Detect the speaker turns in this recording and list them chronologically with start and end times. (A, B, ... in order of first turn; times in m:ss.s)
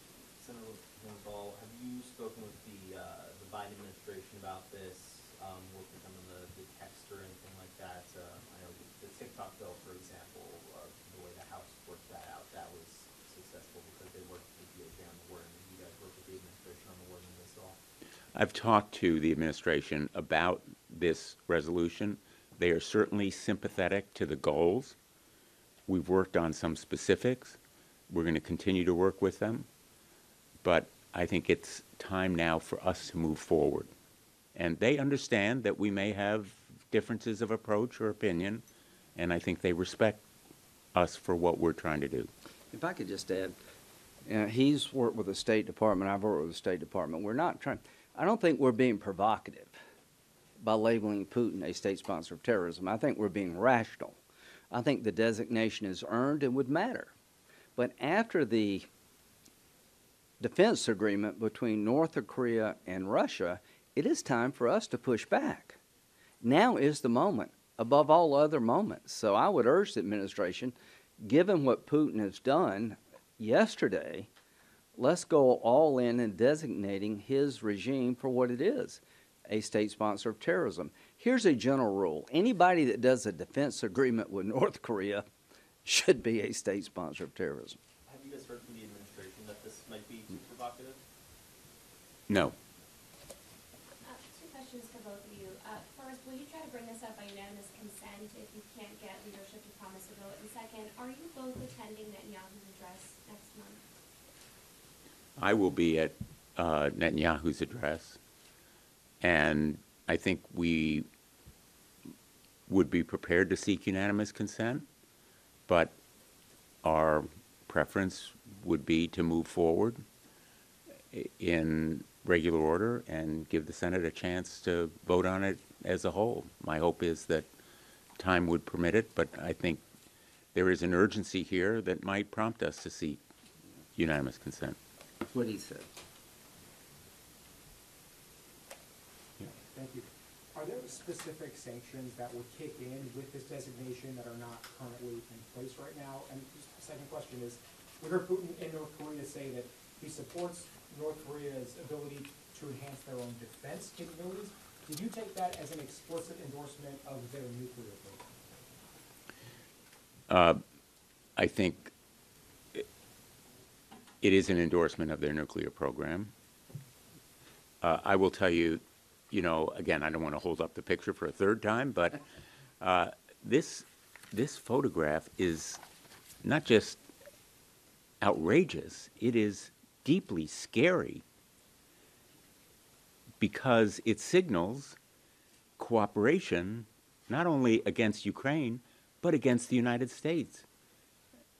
0:00.3-0:17.8 A
0:18.3-0:25.0 B
0:25.9-0:27.6 B
0:28.1-0:29.7 B
0:30.6-0:33.9 B
0:34.5-0:38.6 B
0:39.2-0:40.2 B
0:40.9-0:42.3 B
0:42.7-0:43.5 C
0:44.3-0:49.7 C
0:50.6-0:54.2 C
0:54.7-0:57.1 C
0:57.8-0:58.8 C
1:00.4-1:05.8 C
1:06.4-1:14.3 C
1:15.0-1:25.2 C
1:25.8-1:27.8 C
1:28.1-1:31.0 A
1:32.3-1:32.5 B
1:34.0-1:43.8 D
1:45.4-1:48.2 B
1:49.2-1:51.0 B
1:52.7-1:54.9 B
1:55.7-1:55.9 B
1:56.8-2:00.0 B
2:01.1-2:07.5 B
2:08.2-2:09.8 B
2:10.5-2:13.2 B
2:14.0-2:14.8 B
2:15.3-2:15.8 C
2:19.5-2:38.2 E
2:40.3-2:40.6 B
2:41.4-2:41.9 B
2:44.2-2:46.3 B
2:47.8-2:52.2 B
2:52.8-2:55.8 B
2:56.4-2:57.0 B
2:58.2-3:01.2 B
3:03.4-3:05.0 B
3:05.8-3:10.6 B